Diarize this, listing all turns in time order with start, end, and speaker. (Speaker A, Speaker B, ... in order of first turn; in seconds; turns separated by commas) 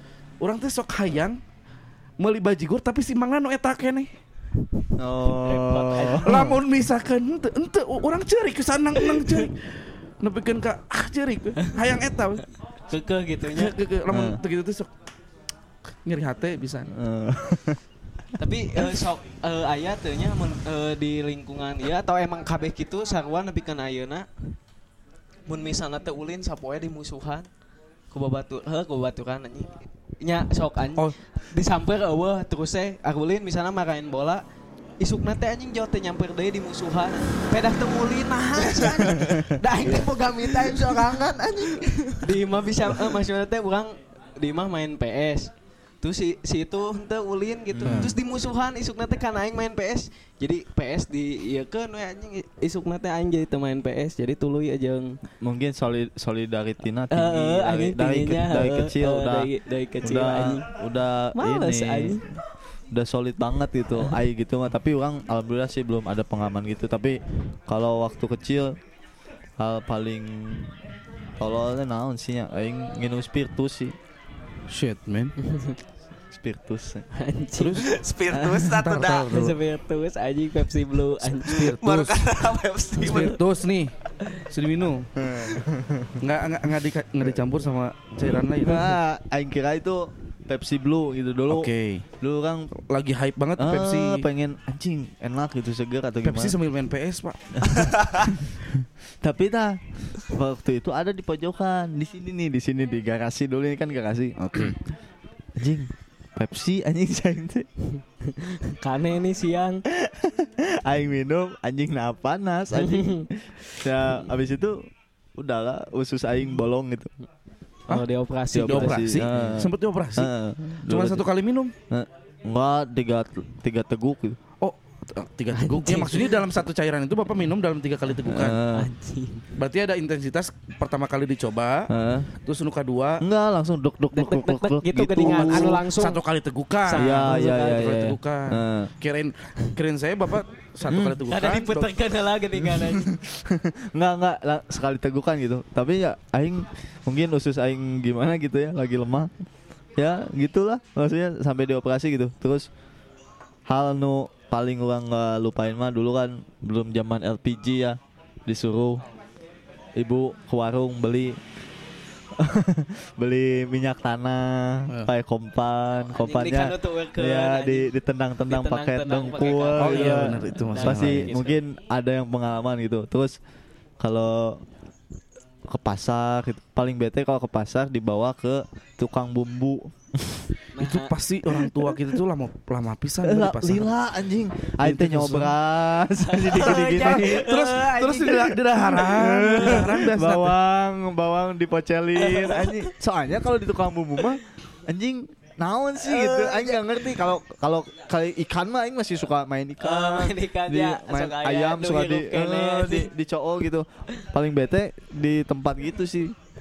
Speaker A: 0.4-1.4, Speaker A: 2.2-4.1, Speaker B: 5.0-6.5, Speaker C: 5.3-6.6, Speaker A: 6.2-12.4, Speaker C: 9.1-9.4, Speaker C: 12.9-13.8, Speaker A: 13.4-14.9, Speaker B: 14.1-14.4, Speaker A: 16.1-16.9, Speaker B: 16.9-17.8, Speaker C: 18.4-24.3, Speaker C: 25.5-27.5, Speaker C: 28.1-34.4, Speaker C: 35.0-55.2, Speaker D: 40.8-42.2, Speaker B: 47.7-48.1, Speaker A: 47.9-48.1, Speaker B: 55.4-59.5, Speaker C: 57.1-60.7, Speaker B: 60.0-62.4, Speaker C: 61.4-62.2, Speaker B: 62.9-68.8, Speaker B: 69.6-70.8, Speaker B: 71.4-74.0, Speaker A: 74.7-75.4, Speaker C: 75.4-75.8, Speaker B: 76.3-77.1, Speaker C: 77.2-77.9, Speaker A: 77.6-78.0, Speaker D: 77.8-79.3, Speaker B: 78.3-78.7, Speaker A: 78.6-79.6, Speaker C: 79.3-81.8, Speaker A: 81.4-82.3, Speaker D: 81.5-83.4, Speaker A: 83.0-83.9, Speaker A: 84.5-85.1, Speaker B: 85.2-86.2, Speaker A: 86.2-89.0, Speaker B: 88.6-92.7, Speaker A: 91.5-92.1, Speaker A: 92.9-94.3, Speaker B: 93.6-96.6, Speaker A: 96.2-98.1, Speaker B: 98.4-104.8, Speaker A: 104.4-104.8, Speaker B: 105.6-107.7, Speaker C: 108.2-109.8, Speaker B: 109.9-117.1, Speaker C: 112.7-113.3, Speaker C: 117.9-119.7, Speaker A: 117.9-120.3, Speaker B: 118.5-121.3, Speaker A: 120.9-121.7, Speaker B: 121.9-124.4, Speaker A: 124.6-128.6, Speaker C: 125.5-126.4, Speaker B: 128.2-128.9, Speaker C: 128.7-129.4, Speaker A: 129.6-131.9, Speaker B: 131.9-132.3, Speaker A: 132.4-133.2, Speaker B: 133.2-135.8, Speaker C: 134.1-136.2, Speaker A: 135.2-141.9, Speaker C: 136.9-137.8, Speaker B: 137.0-138.9, Speaker B: 140.9-141.2, Speaker C: 141.3-143.1, Speaker B: 142.6-149.3, Speaker B: 150.0-152.7, Speaker B: 153.7-159.0, Speaker B: 160.0-161.4, Speaker B: 162.4-173.4, Speaker C: 166.1-167.9, Speaker C: 168.5-171.6, Speaker A: 169.8-171.4, Speaker B: 174.0-174.6, Speaker B: 175.7-180.5, Speaker C: 180.8-181.1, Speaker A: 180.8-183.9, Speaker B: 183.2-187.4, Speaker A: 184.8-185.5, Speaker C: 186.2-188.5, Speaker A: 186.6-190.6, Speaker B: 188.3-206.3, Speaker C: 192.2-192.9, Speaker C: 196.0-196.8, Speaker C: 199.8-203.1